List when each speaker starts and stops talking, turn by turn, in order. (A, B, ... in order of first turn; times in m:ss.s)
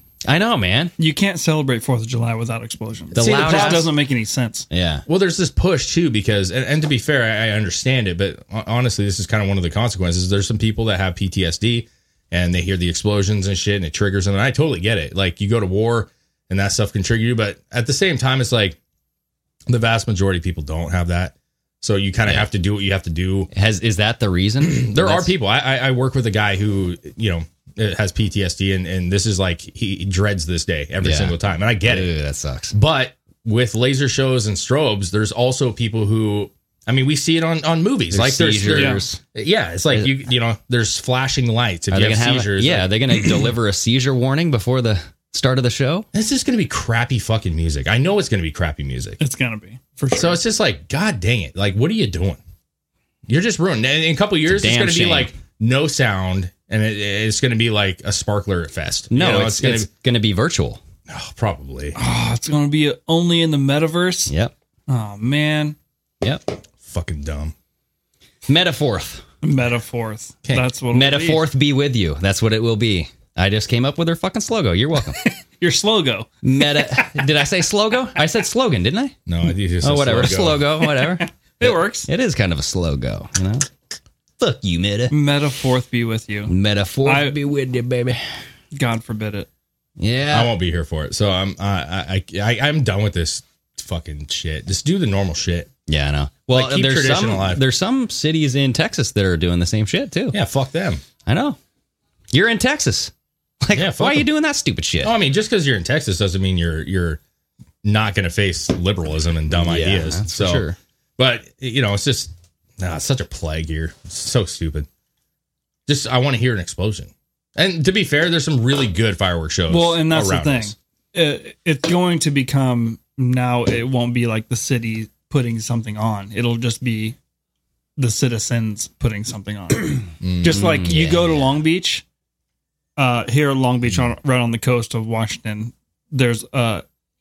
0:00.2-0:00.9 A
0:01.0-0:04.6 B
0:03.1-0:03.9 C
0:03.2-0:03.9 A
0:04.7-0:05.0 A
0:05.1-0:18.8 C
0:19.7-0:23.5 C
0:23.5-0:25.3 A
0:24.6-0:32.1 C
0:31.0-0:32.7 A
0:32.7-0:43.1 C
0:38.1-0:39.2 A
0:38.7-0:39.0 B
0:41.9-0:46.1 A
0:46.1-0:49.2 C
0:49.2-0:50.4 B
0:50.1-0:52.4 C
0:53.3-0:59.9 C
0:54.5-0:55.3 A
0:59.1-1:00.8 A
1:01.1-1:02.0 C
1:02.0-1:04.3 B
1:04.9-1:05.8 B
1:06.2-1:06.6 A
1:06.8-1:07.5 C
1:08.5-1:09.2 A
1:09.4-1:11.4 B
1:10.9-1:15.3 A
1:15.2-1:17.2 B
1:16.4-1:19.2 A
1:19.3-1:20.6 C
1:19.8-1:23.7 A
1:21.1-1:22.1 B
1:24.4-1:25.1 A
1:25.1-1:27.4 B
1:26.5-1:28.2 A
1:28.7-1:29.5 B
1:30.0-1:30.5 A
1:30.3-1:35.7 C
1:35.9-1:40.4 A
1:36.5-1:37.6 C
1:40.3-1:41.0 C
1:41.3-1:41.6 A
1:42.3-1:45.1 A
1:43.7-1:44.3 C
1:45.0-1:47.2 C
1:47.8-1:50.7 C
1:49.6-1:50.8 A
1:51.2-1:54.9 C
1:55.9-2:00.7 C
1:59.7-2:07.2 B
2:08.0-2:12.0 B
2:10.2-2:10.6 C
2:10.5-2:11.5 A
2:13.0-2:16.8 B